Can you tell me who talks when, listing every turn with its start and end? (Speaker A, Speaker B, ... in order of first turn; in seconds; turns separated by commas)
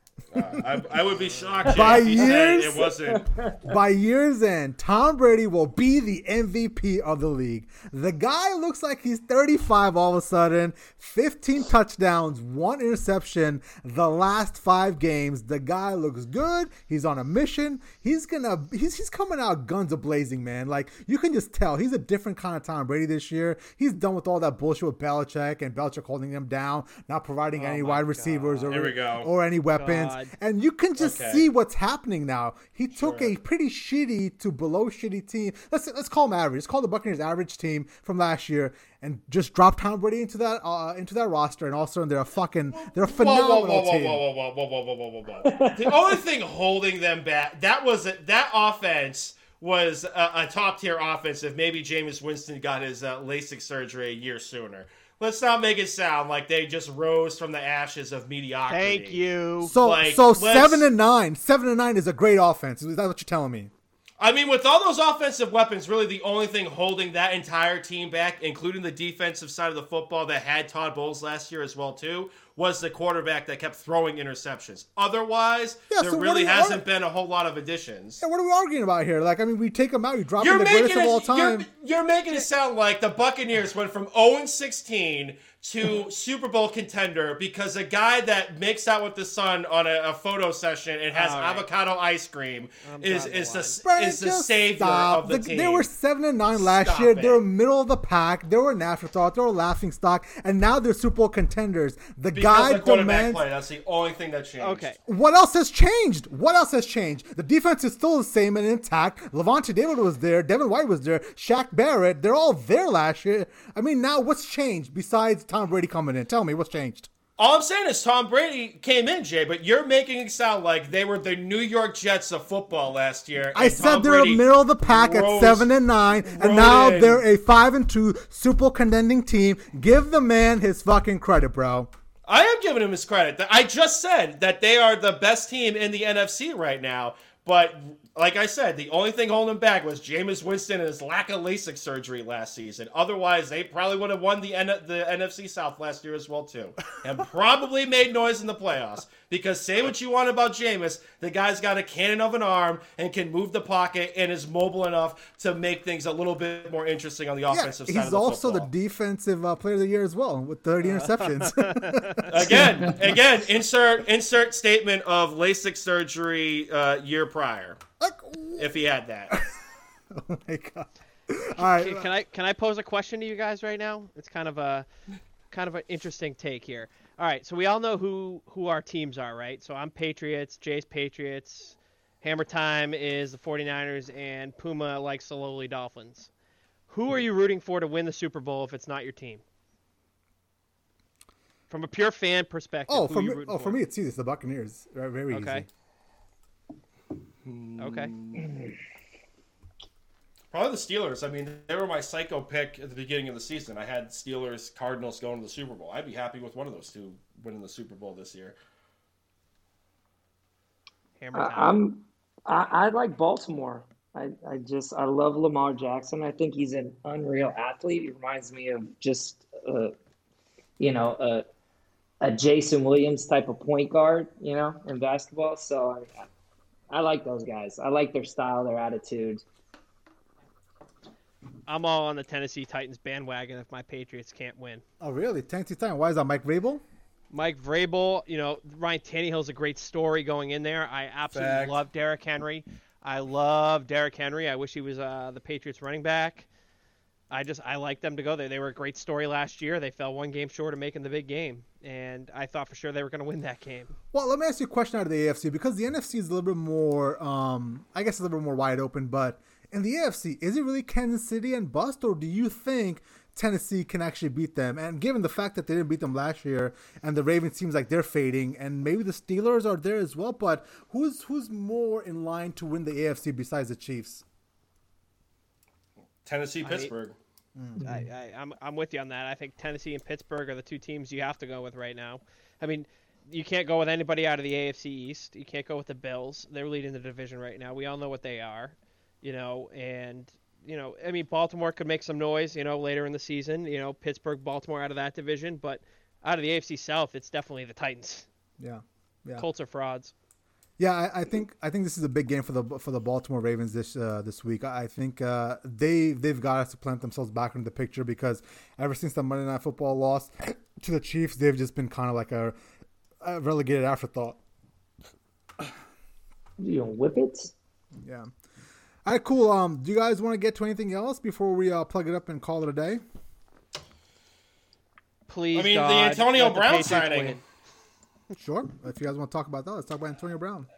Speaker A: 0.3-3.3, Speaker B: 1.2-2.0, Speaker C: 1.7-2.9, Speaker D: 2.3-3.7, Speaker C: 3.6-44.2, Speaker B: 27.6-28.7, Speaker A: 28.7-29.3, Speaker B: 29.8-30.3, Speaker A: 31.0-31.4, Speaker A: 33.0-33.3, Speaker A: 42.9-59.2, Speaker D: 45.4-46.2, Speaker B: 58.7-59.7, Speaker C: 59.6-63.7, Speaker A: 59.7-60.9, Speaker A: 64.2-78.2, Speaker C: 75.9-76.8, Speaker C: 78.2-81.7, Speaker A: 80.4-95.9, Speaker B: 91.1-91.7, Speaker B: 92.8-93.8, Speaker C: 93.8-103.4, Speaker A: 96.5-97.4, Speaker A: 102.3-104.9, Speaker B: 104.6-105.0, Speaker C: 105.0-117.1, Speaker A: 117.4-125.7, Speaker C: 123.5-131.9, Speaker A: 126.2-127.2, Speaker A: 132.2-158.7, Speaker C: 157.5-162.8, Speaker B: 160.8-162.5, Speaker A: 162.3-167.8, Speaker C: 168.0-168.7, Speaker A: 168.6-169.4, Speaker C: 169.3-169.6, Speaker C: 170.1-172.1, Speaker B: 171.6-174.8, Speaker B: 175.5-186.3, Speaker B: 186.9-189.4, Speaker B: 191.7-193.8, Speaker C: 192.9-195.7, Speaker B: 195.3-195.6, Speaker A: 197.4-198.6, Speaker B: 197.8-198.1, Speaker A: 200.5-208.6, Speaker B: 211.2-211.8, Speaker D: 211.3-219.9, Speaker D: 220.8-221.4, Speaker D: 222.2-226.2, Speaker D: 226.9-229.4, Speaker B: 231.7-234.8, Speaker C: 235.0-236.8, Speaker B: 237.3-246.5, Speaker A: 241.3-241.7, Speaker B: 247.3-253.9, Speaker C: 254.1-274.2, Speaker A: 276.2-277.1, Speaker B: 276.6-276.9, Speaker C: 277.6-277.8, Speaker D: 277.8-278.0, Speaker B: 277.8-298.3, Speaker C: 298.6-299.4, Speaker B: 299.4-300.1, Speaker C: 300.8-312.5, Speaker C: 313.2-314.4, Speaker D: 316.6-317.5, Speaker C: 318.0-318.3, Speaker C: 319.1-323.0, Speaker B: 325.3-327.4, Speaker A: 325.5-327.4, Speaker C: 328.4-330.7